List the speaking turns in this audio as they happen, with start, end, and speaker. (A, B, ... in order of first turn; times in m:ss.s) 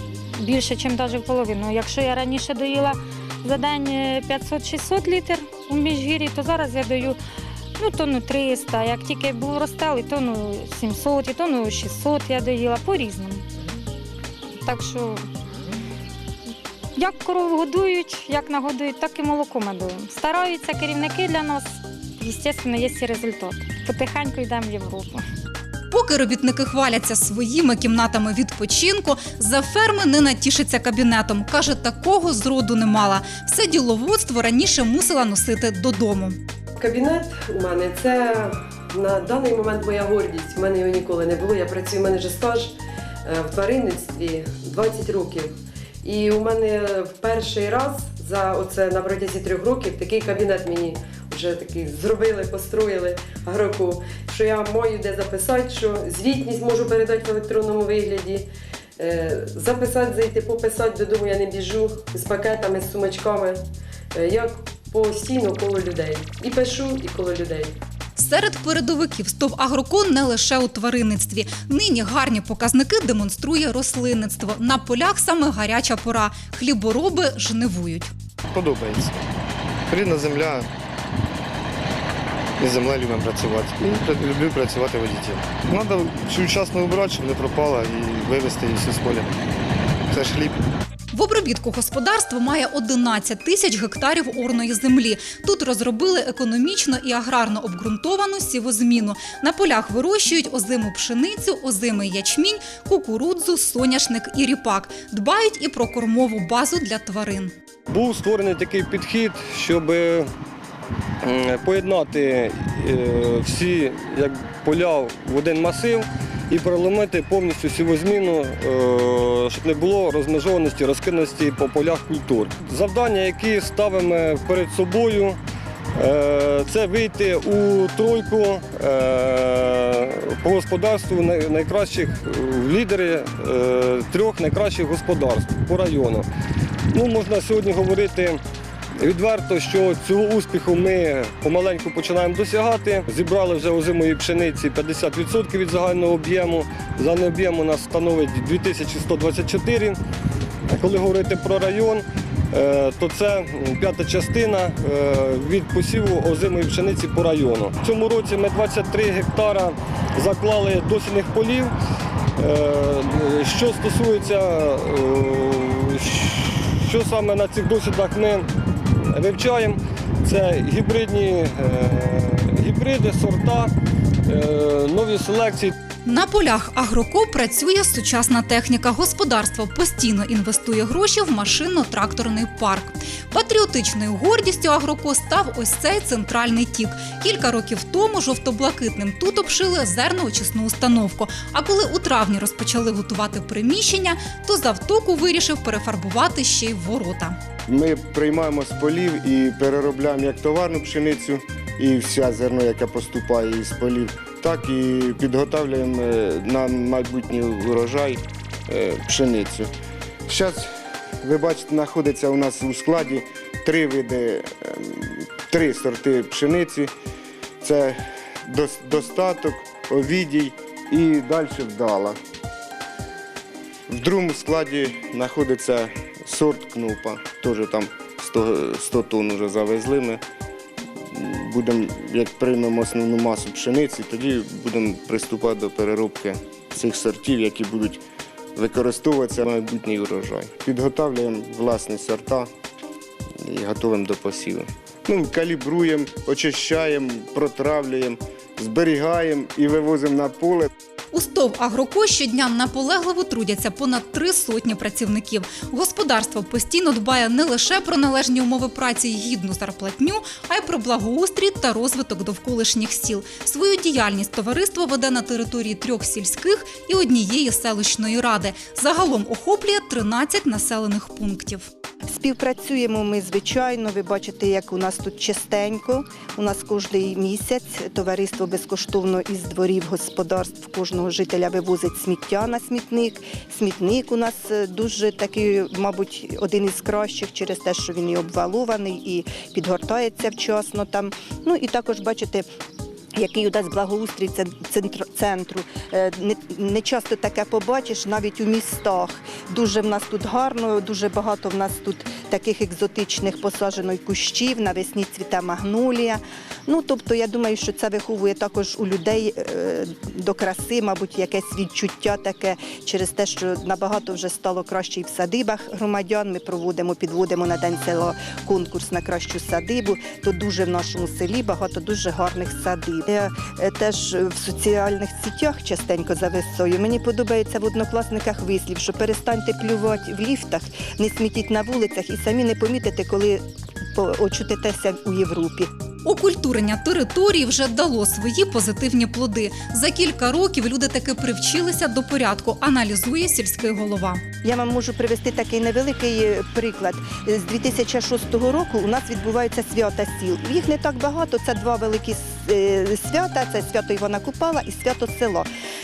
0:00.4-0:07.2 A
0:07.8-0:13.4 A
0:14.6-0:15.2 A
0:17.0-0:25.2 A
0:25.9-0:36.4 B
0:36.8-0:42.7 C
0:43.2-0:58.4 C
0:59.0-1:03.6 C
1:04.1-1:07.8 C
1:08.2-1:18.1 B
1:18.5-1:19.2 D
1:19.9-1:20.7 D
1:22.6-1:29.3 D
1:30.1-1:30.6 D
1:31.1-1:47.5 B
1:47.9-1:50.3 E
1:51.2-2:05.4 E
2:06.0-2:16.2 E
2:16.9-2:18.4 E
2:19.0-2:30.0 E
2:30.7-2:41.7 E
2:42.4-2:48.5 E
2:49.1-2:53.7 E
2:54.3-2:55.7 E
2:56.0-3:17.4 B
3:17.7-3:29.7 F
3:30.3-3:30.7 F
3:31.2-3:36.9 F
3:37.6-3:42.2 F
3:43.9-3:50.2 F
3:51.1-3:58.0 F
3:58.6-4:02.5 F
4:03.4-4:10.7 F
4:11.1-4:31.7 B
4:32.1-4:52.4 G
4:53.2-5:33.4 G
5:33.9-5:35.7 G
5:36.0-5:44.2 B
5:44.4-5:55.5 G